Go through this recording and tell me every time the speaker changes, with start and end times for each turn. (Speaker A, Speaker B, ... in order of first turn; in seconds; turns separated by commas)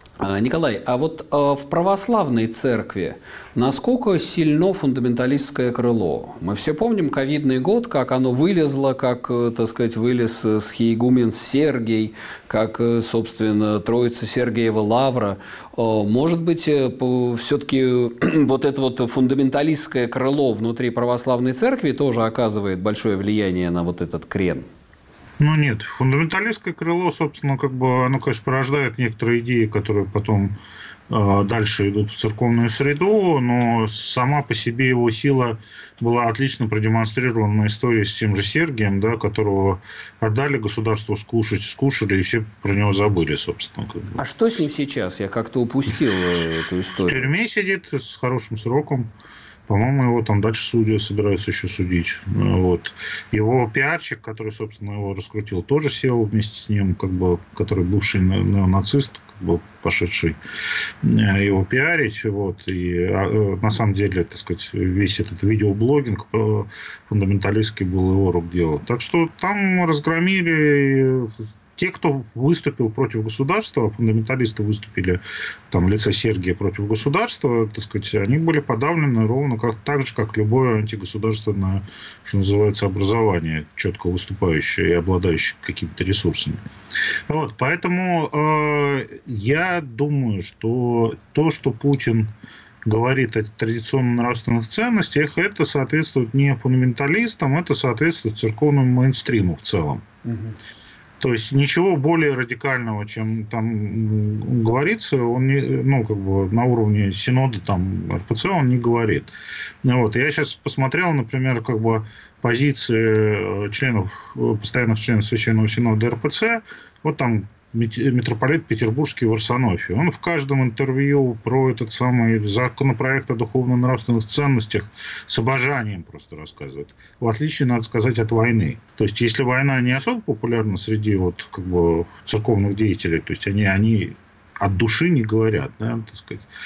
Speaker A: 0.2-24.7, Speaker B: 25.4-30.6, Speaker B: 31.1-44.1, Speaker A: 44.2-47.3, Speaker B: 47.1-49.1, Speaker B: 49.7-60.4, Speaker B: 61.0-86.6, Speaker B: 87.3-92.3, Speaker B: 92.9-100.0, Speaker A: 100.3-100.5, Speaker B: 101.2-109.3, Speaker B: 109.8-136.5